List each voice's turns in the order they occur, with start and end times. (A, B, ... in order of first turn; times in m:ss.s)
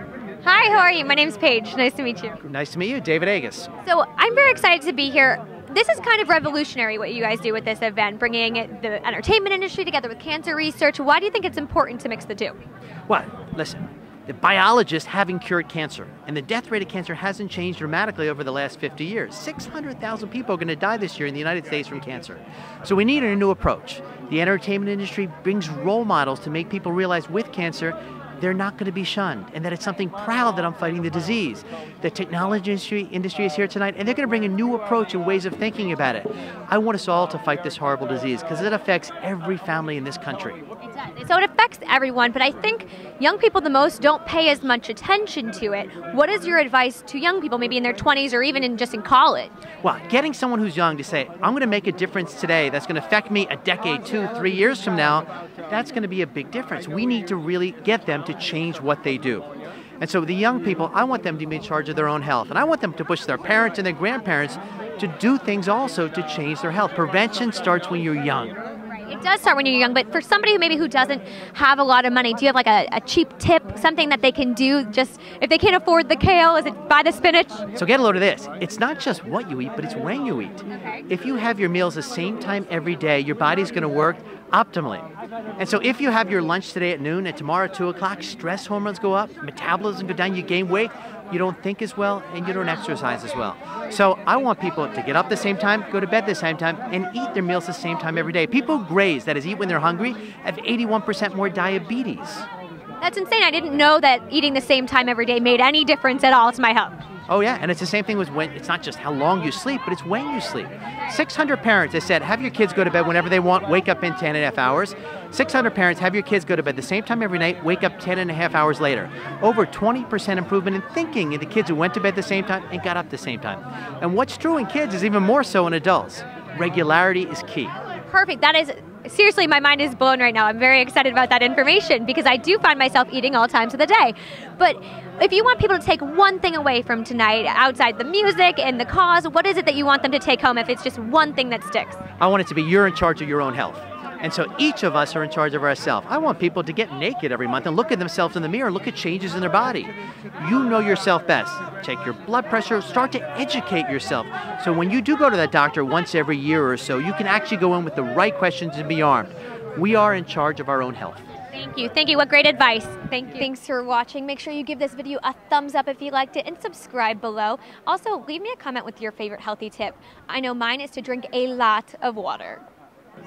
0:00.4-0:02.4 A
0:02.4-0:03.7 B
0:03.8-0:12.6 A
0:13.1-0:40.6 B
0:40.8-0:49.5 A
0:49.8-0:59.5 B
1:00.0-1:08.6 B
1:09.0-1:17.7 A
1:17.8-1:42.5 B
1:43.0-1:47.0 A
1:47.3-2:07.7 B
2:08.1-2:22.0 A
2:22.2-2:41.2 B
2:41.5-2:52.6 A